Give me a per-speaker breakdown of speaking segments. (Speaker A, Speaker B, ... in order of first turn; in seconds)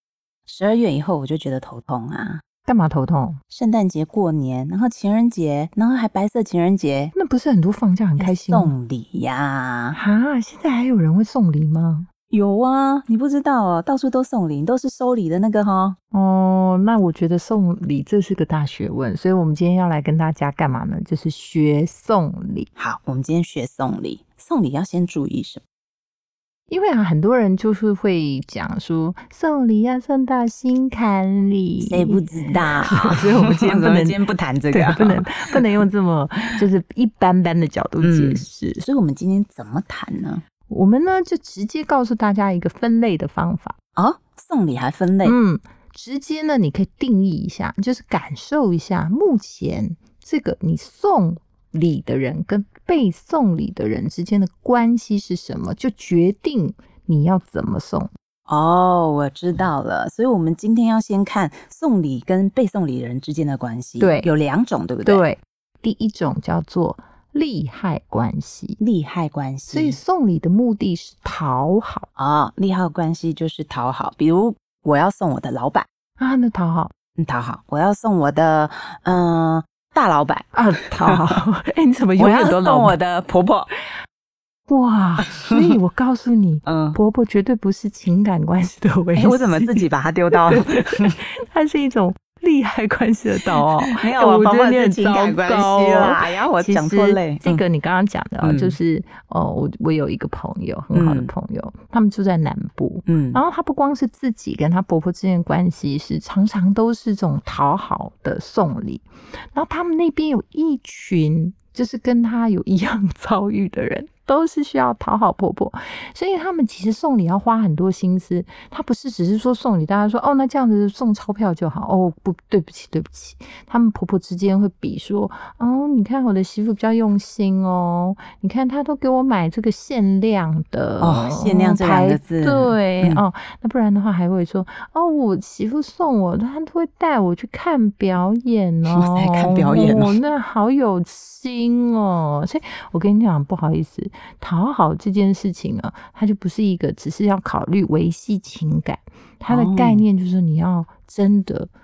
Speaker A: 0.5-2.4, 3.5-7.1, 8.2-10.0, 12.3-16.0, 22.8-25.6, 31.8-35.6, 38.0-40.4, 44.0-45.4, 58.5-65.2, 68.8-70.0, 72.2-75.9, 77.2-81.4, 82.2-83.7, 85.3-85.8, 86.7-87.0, 89.2-91.2, 93.9-97.6, 98.4-98.8, 100.9-101.3, 103.1-103.4, 131.0-133.2, 138.9-140.2, 149.5-150.0
Speaker B: 2.6-3.4, 7.2-8.7, 9.9-12.1, 16.1-22.7, 26.7-34.2, 34.7-38.8, 40.7-43.8, 45.2-58.1, 64.0-64.3, 65.0-68.8, 69.7-72.1, 76.2-76.9, 80.5-83.0, 84.7-151.7